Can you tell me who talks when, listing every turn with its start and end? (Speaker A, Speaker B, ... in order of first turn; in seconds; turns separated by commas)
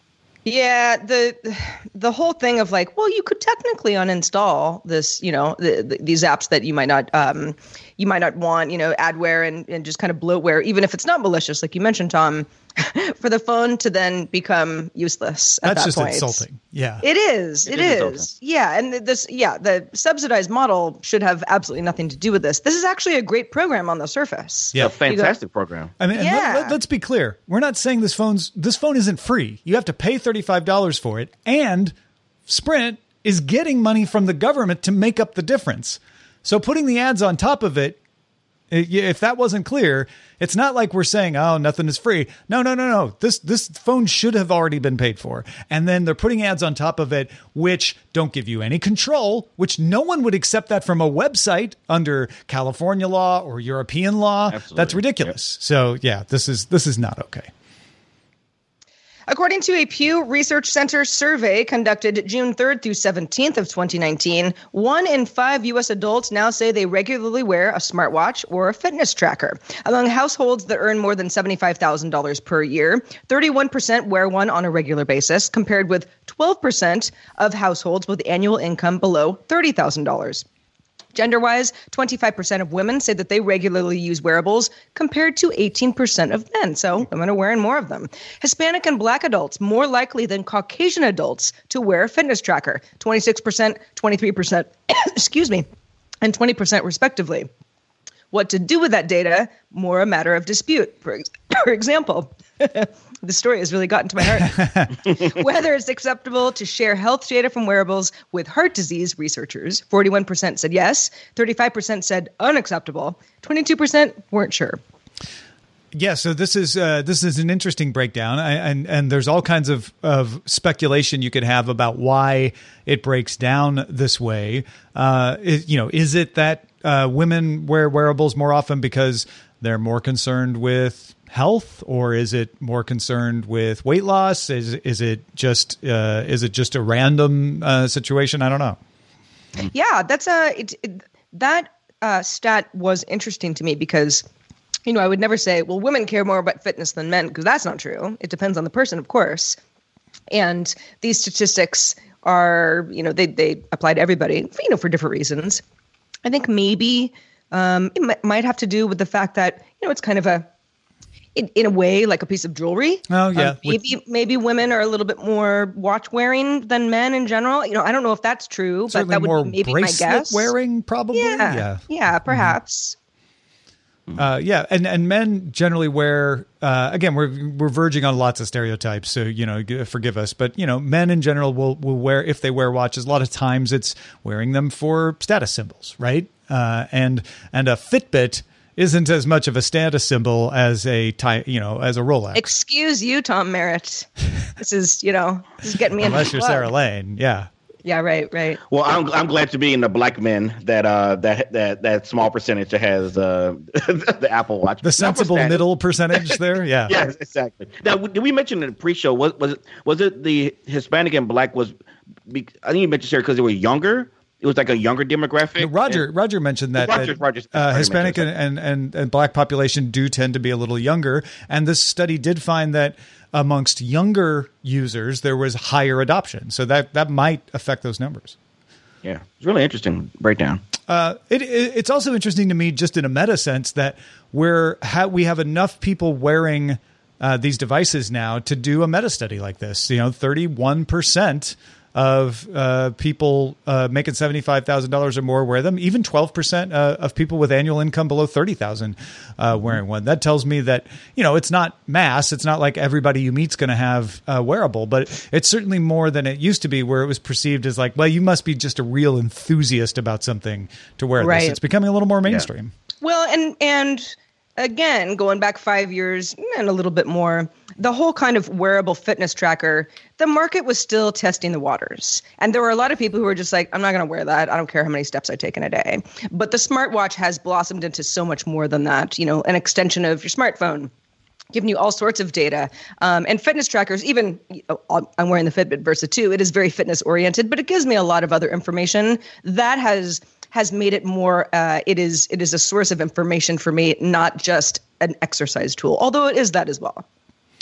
Speaker A: 0.4-16.4, Speaker B: 15.6-17.0, Speaker A: 17.0-25.3, Speaker C: 17.7-18.3, Speaker C: 24.8-25.9, Speaker B: 26.0-31.9, Speaker A: 26.1-26.7, Speaker B: 32.5-38.0, Speaker B: 38.7-57.5, Speaker C: 54.5-55.3, Speaker A: 59.3-80.4, Speaker A: 81.1-95.6, Speaker A: 96.2-97.5, Speaker A: 98.3-114.8, Speaker B: 104.6-104.9, Speaker B: 115.9-138.8, Speaker A: 139.7-144.2, Speaker A: 144.8-149.6, Speaker A: 150.3-155.6, Speaker A: 156.2-160.4, Speaker A: 161.3-170.5, Speaker B: 163.1-163.8, Speaker B: 168.9-172.6, Speaker A: 171.1-172.9, Speaker B: 174.2-192.5, Speaker A: 192.3-194.1, Speaker A: 194.6-196.7, Speaker B: 196.0-197.5, Speaker A: 197.8-198.6, Speaker C: 198.7-205.6, Speaker B: 204.8-206.9, Speaker C: 206.9-211.7, Speaker C: 212.3-216.0, Speaker B: 215.6-228.3, Speaker C: 216.8-218.3, Speaker C: 229.0-230.6, Speaker B: 230.9-262.7, Speaker A: 261.2-261.6, Speaker A: 263.0-280.9, Speaker A: 281.5-297.0